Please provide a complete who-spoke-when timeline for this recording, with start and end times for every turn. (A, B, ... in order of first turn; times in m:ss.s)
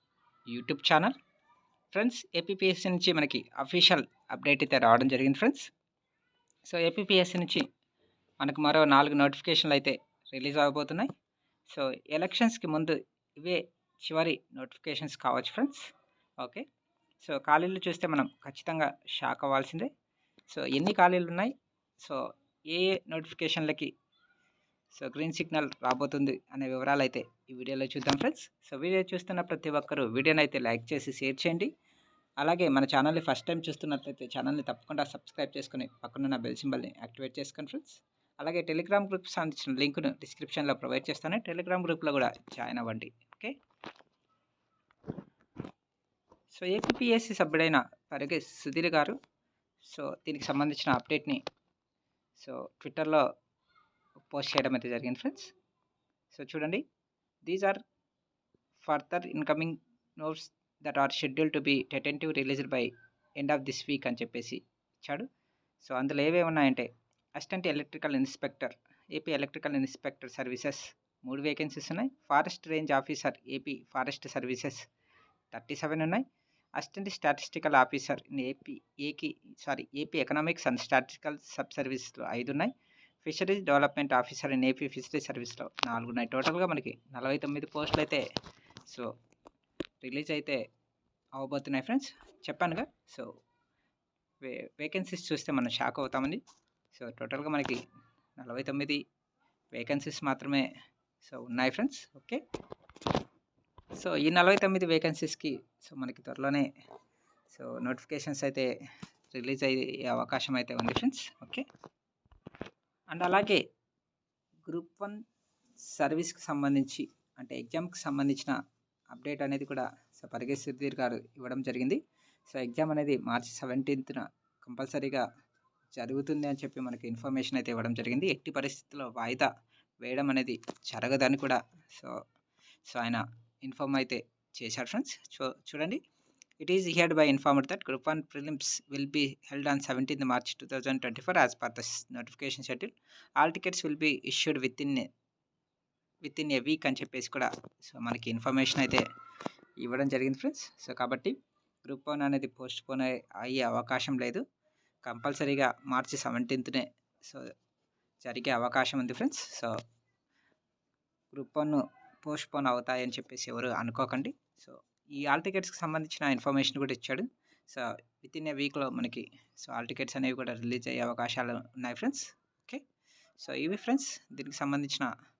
0:00.5-0:01.1 A
0:01.9-0:05.7 A
0:06.7-0:07.6 A
0:08.4-0:11.1 A
0:11.7-0:15.9 A
0:17.2-0:19.9 A
0:20.5-0:23.9 A
0:25.0-0:31.7 A
0:32.4-0:43.5 A
0:46.5-0:49.2 A
0:49.8-0:51.4 A
0:52.4-0:53.2 A
0:54.3-0:55.5 A
0:56.3-0:56.8 A
0:57.4-0:57.8 A
0:58.8-1:05.3 A
1:05.8-1:14.8 A
1:15.5-1:16.2 A
1:16.8-1:22.7 A
1:23.2-1:28.2 A
1:30.0-1:30.6 A
1:31.4-1:33.3 A
1:34.4-1:36.4 A
1:36.9-1:37.8 A
1:38.4-1:39.0 A
1:39.7-1:40.7 A
1:41.2-1:42.4 A
1:44.0-1:46.7 A
1:47.5-1:48.7 A
1:49.3-1:51.6 A
1:53.1-1:53.6 A
1:54.7-1:55.2 A
1:55.8-1:58.6 A
1:59.1-2:05.2 A
2:06.0-2:09.5 A
2:10.0-2:12.2 A
2:12.9-2:16.0 A
2:16.6-2:25.1 A
2:26.2-2:29.0 A
2:29.8-2:31.3 A
2:31.8-2:34.4 A
2:35.0-2:37.5 A
2:38.2-2:39.8 A
2:41.3-2:52.8 A
2:53.4-2:55.1 A